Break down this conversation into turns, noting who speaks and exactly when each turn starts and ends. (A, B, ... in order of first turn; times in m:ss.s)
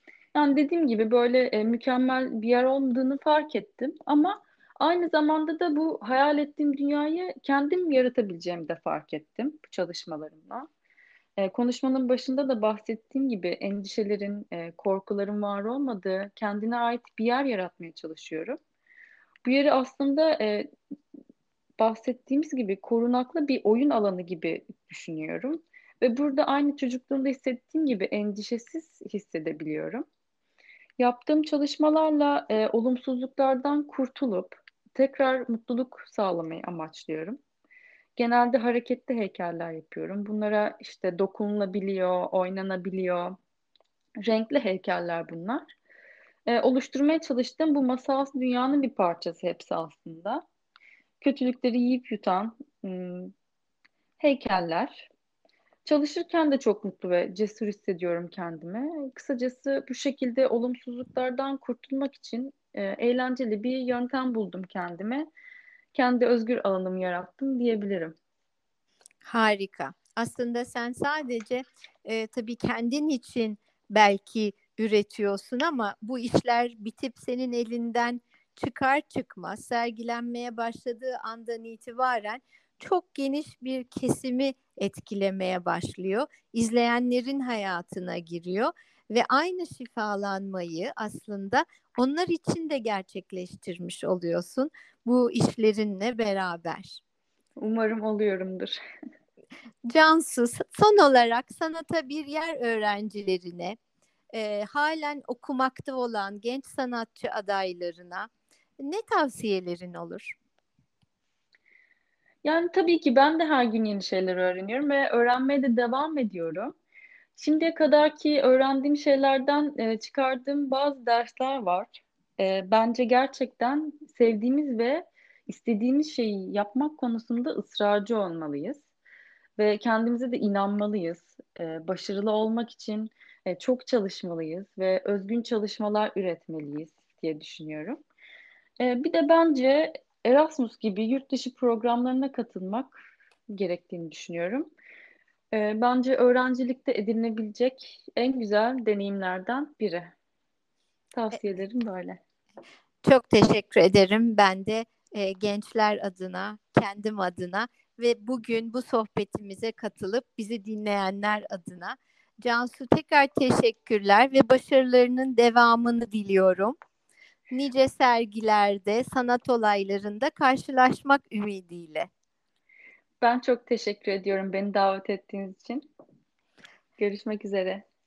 0:00.3-0:10.7 A
0:11.4-0:18.6 A
0:19.4-0:20.7 A
0:21.8-0:30.0 A
0:31.0-0:37.4 A
0:38.2-0:43.4 A
0:44.2-0:45.7 A
0:46.5-0:50.4 A
0:51.2-0:53.3 A
0:54.2-0:55.1 A
0:55.8-1:05.3 A
1:05.9-1:08.1 A
1:09.2-1:37.0 B
1:37.6-1:38.8 A
1:39.9-1:43.8 B
1:44.3-1:50.4 B
1:52.4-1:56.7 A
1:57.4-2:08.8 A
2:09.6-2:18.0 A
2:18.8-2:23.0 A
2:23.5-2:24.7 A
2:25.5-2:30.1 A
2:31.1-2:32.2 A
2:33.0-2:46.8 B
2:47.5-2:52.1 B
2:53.2-2:55.8 A
2:57.0-2:57.8 A